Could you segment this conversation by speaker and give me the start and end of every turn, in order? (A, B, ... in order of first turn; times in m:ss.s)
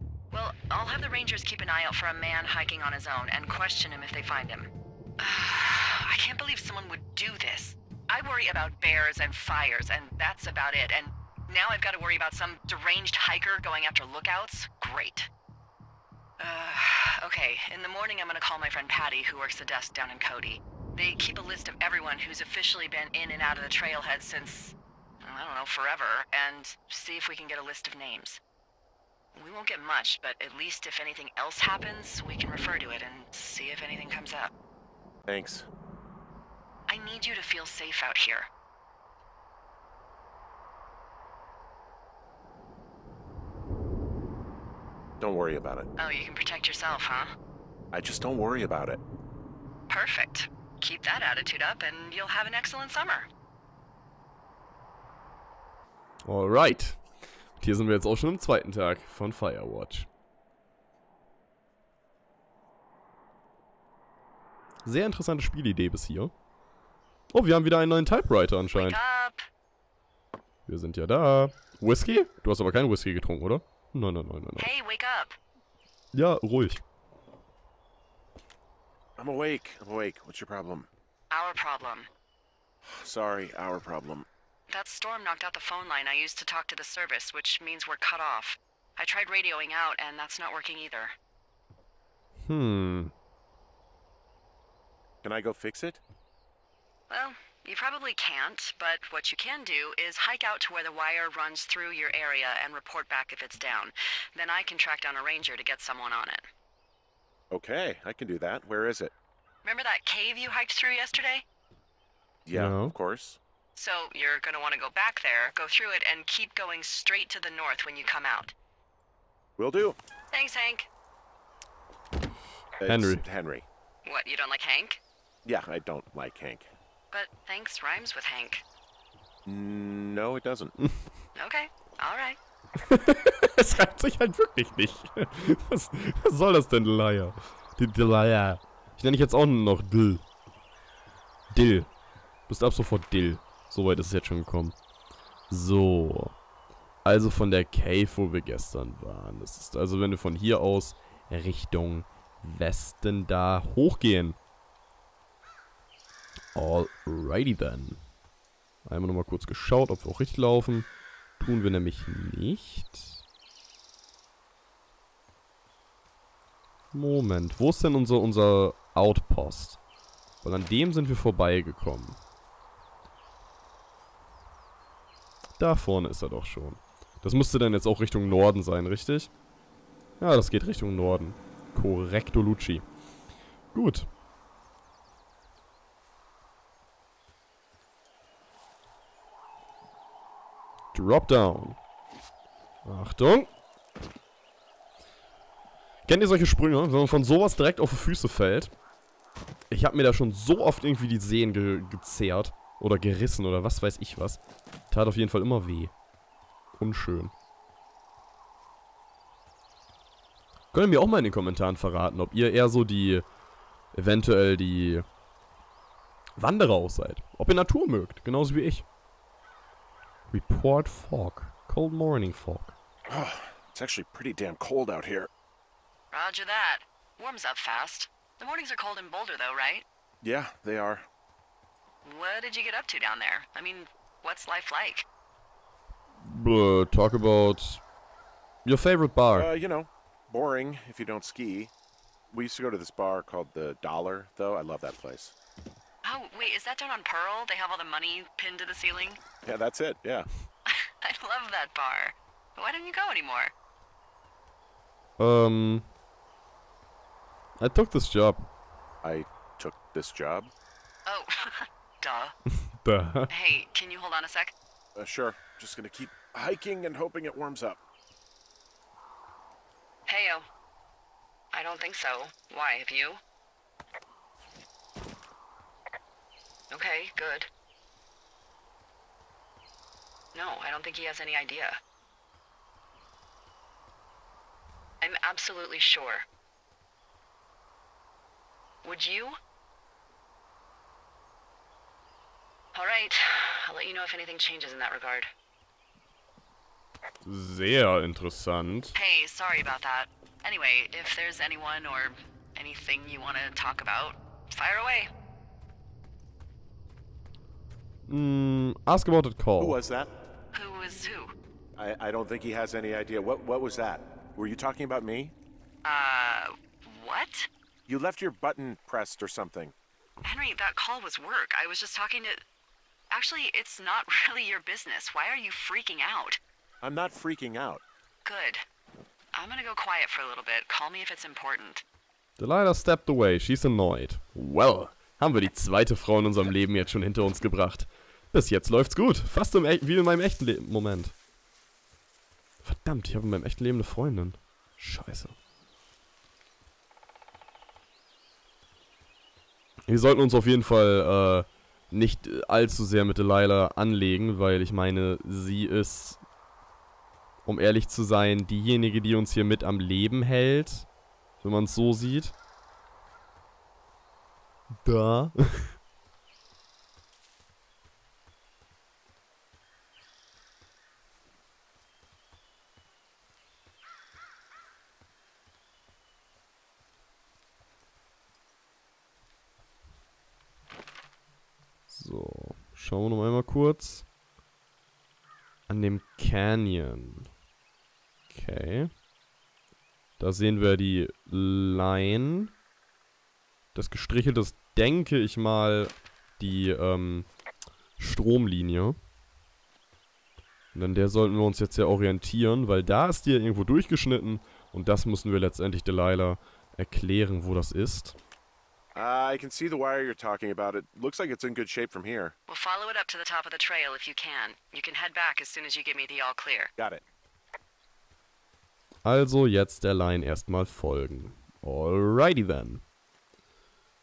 0:00.3-0:15.3 A
0:16.4-0:28.4 A
0:29.3-0:34.5 A
0:35.3-0:35.7 B
0:36.9-0:38.5 A
0:45.2-0:45.9 B
0:46.0-0:47.3 A
0:47.9-0:49.0 B
0:49.9-0:53.3 A
0:56.2-0:57.0 C
0:57.6-1:00.1 C
1:04.8-1:06.3 C
1:07.3-1:09.0 C
1:08.7-1:09.4 A
1:10.7-1:14.7 C
1:14.6-1:15.4 A
1:16.1-1:16.8 C
1:19.2-1:20.9 B
1:21.3-1:22.1 A
1:22.8-1:24.3 B
1:24.7-1:31.1 A
1:32.4-1:33.1 C
1:35.2-1:36.0 B
1:37.1-1:46.4 A
1:47.5-1:49.1 B
1:49.6-1:51.4 A
1:52.4-1:53.4 B
1:52.5-1:52.9 C
1:53.8-1:58.5 A
1:59.6-2:00.0 B
2:00.3-2:00.9 A
2:02.8-2:03.7 B
2:02.9-2:03.2 C
2:04.0-2:05.0 A
2:05.4-2:06.7 B
2:07.1-2:08.6 A
2:09.4-2:10.8 B
2:11.4-2:12.4 A
2:12.8-2:20.2 C
2:21.5-2:21.9 C
2:22.5-2:24.8 C
2:25.5-2:26.4 C
2:27.0-2:34.4 C
2:36.6-2:38.0 C
2:38.8-2:43.2 C
2:46.9-2:49.8 C
2:50.4-2:52.2 C
2:55.6-2:59.3 C
3:00.2-3:02.8 C
3:03.7-3:04.1 C
3:10.9-3:11.8 C
3:12.8-3:13.5 C
3:16.1-3:18.7 C
3:19.7-3:25.9 C
3:26.8-3:27.3 C
3:30.7-3:33.2 C
3:33.9-3:35.0 C
3:36.4-3:38.8 C
3:40.3-3:42.8 C
3:43.1-3:45.3 B
3:46.1-3:49.8 A
3:50.2-3:51.0 B
3:52.0-3:55.1 A
3:56.2-3:57.8 C
3:58.6-3:59.5 C
3:59.3-4:01.7 B
4:02.3-4:05.3 B
4:06.0-4:09.2 A
4:09.4-4:10.3 B
4:10.7-4:13.5 A
4:15.2-4:15.9 C
4:17.6-4:18.4 C
4:19.0-4:20.5 B
4:21.1-4:22.4 A
4:22.6-4:23.3 C
4:23.3-4:24.5 A
4:24.9-4:27.8 B
4:30.1-4:30.5 A
4:31.5-4:33.2 A
4:36.7-4:37.5 A
4:40.3-4:41.8 A
4:45.0-4:46.2 A
4:48.8-4:49.4 A
4:52.7-4:55.3 A
4:57.2-4:58.9 C
4:58.9-5:05.1 A
5:08.1-5:09.8 C
5:09.6-5:10.1 B
5:10.5-5:11.3 A
5:11.8-5:15.3 B
5:15.8-5:17.5 A
5:17.9-5:19.7 B
5:20.2-5:22.4 A
5:23.1-5:26.4 A
5:26.8-5:27.8 B
5:28.2-5:28.6 A
5:29.3-5:31.8 A
5:32.4-5:41.1 C
5:42.6-5:45.3 C
5:49.9-5:56.2 C
5:57.4-6:00.9 C
6:01.4-6:02.3 C
6:04.8-6:05.8 C
6:21.9-6:24.1 C
6:25.7-6:27.3 C
6:28.3-6:28.9 C
6:30.2-6:32.5 C
6:33.8-6:37.3 C
6:38.0-6:39.0 C
6:40.7-6:48.2 C
6:48.9-6:52.3 B
6:52.5-6:56.7 A
6:56.8-6:57.0 B
6:59.0-7:02.8 C